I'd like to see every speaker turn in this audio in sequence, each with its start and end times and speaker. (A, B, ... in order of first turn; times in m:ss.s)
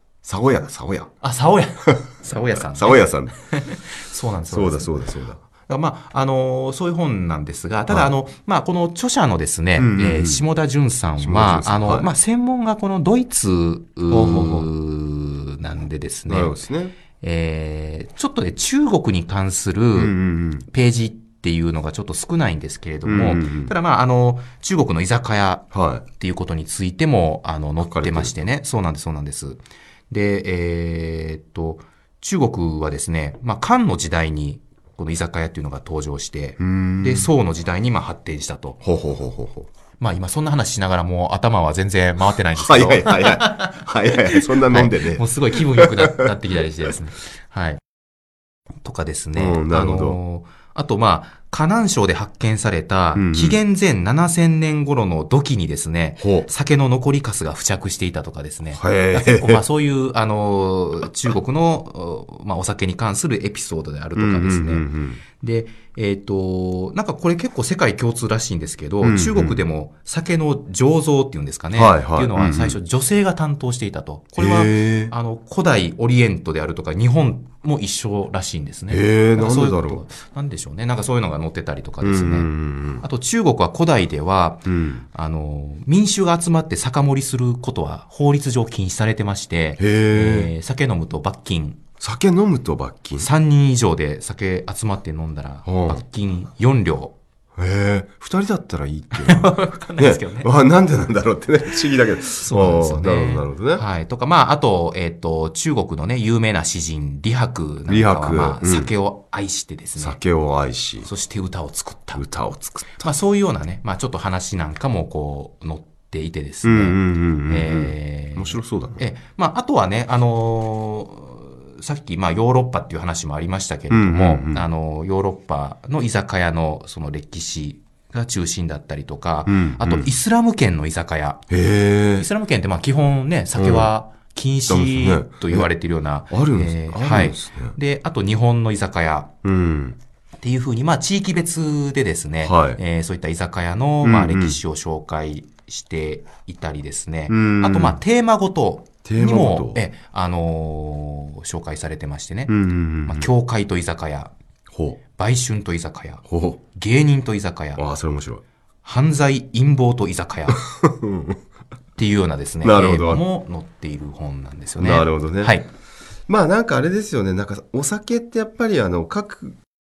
0:00.2-0:01.1 A
0:01.2-0:05.0 B
0:02.7-0:03.4 A
0:04.5-0:05.4 A
0:05.6-0:16.6 B
0:09.8-0:10.4 A
0:11.2-0:12.1 A
0:14.1-0:14.7 A
0:16.3-0:16.9 A
0:17.2-0:38.8 B
0:20.0-0:20.7 A
0:23.0-0:23.7 A
0:25.7-0:26.0 A
0:27.9-0:28.3 A
0:36.6-0:37.3 A
0:38.8-0:39.7 A
0:40.0-0:47.8 B
0:42.5-0:46.3 A
0:48.8-1:04.8 B
0:49.4-0:50.2 A
0:53.2-0:53.6 A
0:56.2-0:56.5 A
0:58.7-0:59.6 A
1:04.2-1:05.2 A
1:05.4-1:31.8 B
1:09.0-1:09.6 A
1:11.7-1:12.8 A
1:14.4-1:15.1 A
1:18.9-1:20.0 A
1:22.0-1:23.1 A
1:24.7-1:25.0 A
1:29.8-1:30.5 A
1:32.0-1:33.3 A
1:33.2-1:37.2 B
1:35.7-1:36.0 A
1:37.6-1:43.8 A
1:39.1-1:40.5 B
1:42.4-1:50.2 B
1:47.9-1:48.9 A
1:50.0-1:51.1 A
1:51.0-1:52.2 B
1:52.2-1:53.1 A
1:53.0-2:11.4 B
1:56.6-1:59.0 A
2:03.9-2:04.6 A
2:09.5-2:10.1 A
2:11.5-2:12.3 A
2:12.2-2:19.3 B
2:13.6-2:13.9 A
2:14.7-2:15.7 A
2:16.3-2:17.8 A
2:19.4-2:20.0 A
2:20.4-2:32.6 B
2:22.4-2:22.8 A
2:24.0-2:24.6 A
2:27.3-2:28.0 A
2:29.0-2:29.8 A
2:32.5-2:33.3 A
2:33.1-2:34.3 B
2:34.7-2:35.0 A
2:35.1-2:37.8 B
2:36.3-2:36.6 A
2:37.8-2:38.4 A
2:38.8-2:40.6 B
2:40.5-2:41.4 A
2:42.0-2:45.7 B
2:42.6-2:43.2 A
2:44.8-2:45.6 A
2:46.3-2:49.6 A